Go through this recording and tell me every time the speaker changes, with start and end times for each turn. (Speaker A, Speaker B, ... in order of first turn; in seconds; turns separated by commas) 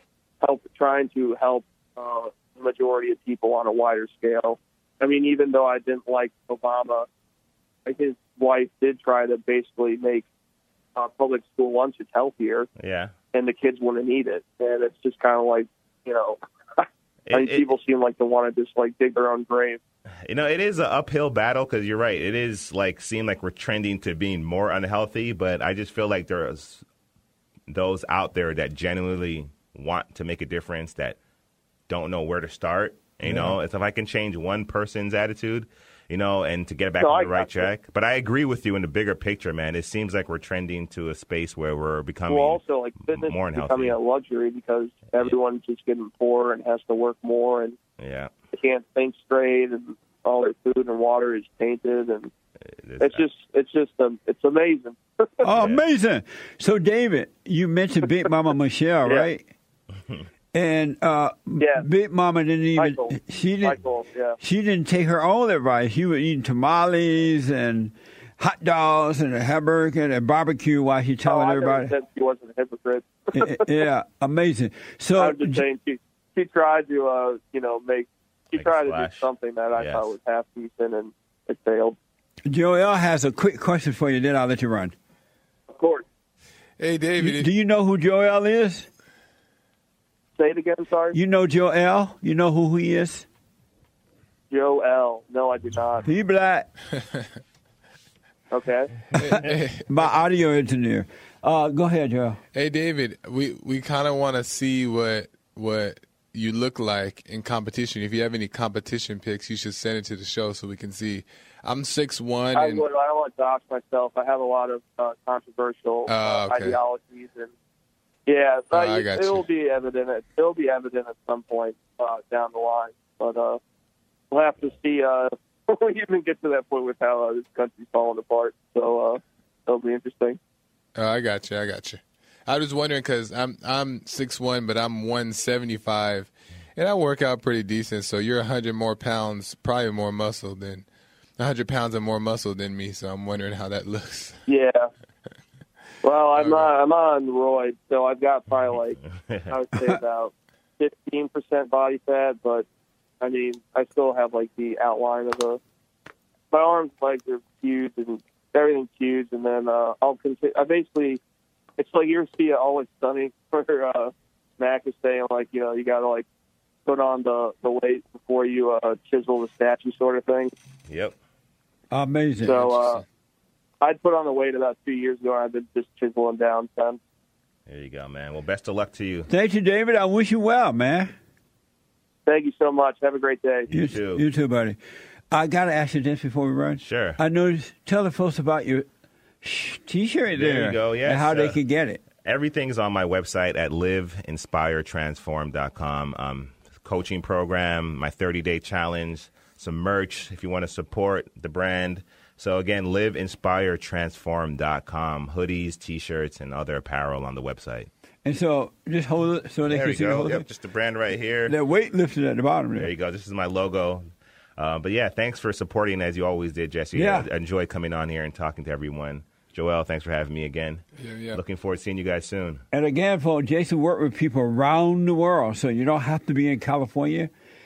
Speaker A: 0.4-7.1, Speaker A: 7.8-10.3, Speaker A: 10.9-12.7, Speaker B: 12.8-13.1, Speaker A: 13.3-19.8, Speaker B: 17.3-17.7, Speaker B: 20.2-26.8, Speaker B: 27.7-31.2, Speaker B: 31.9-44.0, Speaker C: 33.2-33.5, Speaker A: 37.0-37.7, Speaker A: 42.3-47.8, Speaker B: 48.0-48.3, Speaker A: 48.5-52.3, Speaker B: 52.8-53.2, Speaker A: 53.0-55.4, Speaker C: 55.4-59.4, Speaker B: 55.5-55.8, Speaker C: 60.5-63.8, Speaker A: 61.6-61.9, Speaker A: 62.8-64.4, Speaker C: 64.4-71.9, Speaker A: 71.2-73.6, Speaker C: 73.3-75.6, Speaker A: 75.2-82.0, Speaker B: 78.5-80.1, Speaker C: 82.5-84.9, Speaker A: 85.7-86.0, Speaker D: 86.8-87.5, Speaker C: 87.2-88.9, Speaker A: 90.3-91.2, Speaker C: 91.1-93.3, Speaker A: 94.5-96.0, Speaker C: 96.0-96.7, Speaker D: 97.0-97.3, Speaker A: 98.5-99.1, Speaker D: 99.1-99.9, Speaker C: 99.3-102.4, Speaker D: 102.5-112.8, Speaker A: 112.5-117.5, Speaker D: 116.1-116.8, Speaker A: 118.3-123.6, Speaker D: 118.7-119.4, Speaker A: 124.3-130.4, Speaker D: 130.9-140.9, Speaker D: 141.4-144.4, Speaker A: 144.5-144.9, Speaker A: 146.0-152.7, Speaker D: 146.3-146.7, Speaker B: 149.2-149.5, Speaker A: 153.2-155.6, Speaker A: 156.5-161.2, Speaker A: 161.8-166.2, Speaker A: 166.8-170.5, Speaker B: 170.9-171.2, Speaker C: 171.9-172.9, Speaker A: 172.4-173.0, Speaker A: 173.8-177.0, Speaker B: 177.7-179.3, Speaker C: 179.3-181.1, Speaker A: 182.2-183.7, Speaker B: 183.7-184.2, Speaker C: 183.7-184.8, Speaker C: 185.3-188.9, Speaker B: 186.8-187.2, Speaker C: 189.4-192.0, Speaker B: 190.3-191.6, Speaker B: 192.2-207.9, Speaker C: 208.2-210.4, Speaker B: 209.7-211.5, Speaker C: 211.5-212.9, Speaker B: 212.8-214.0, Speaker B: 214.6-222.6, Speaker C: 216.9-217.3, Speaker D: 221.0-221.4, Speaker C: 222.7-227.3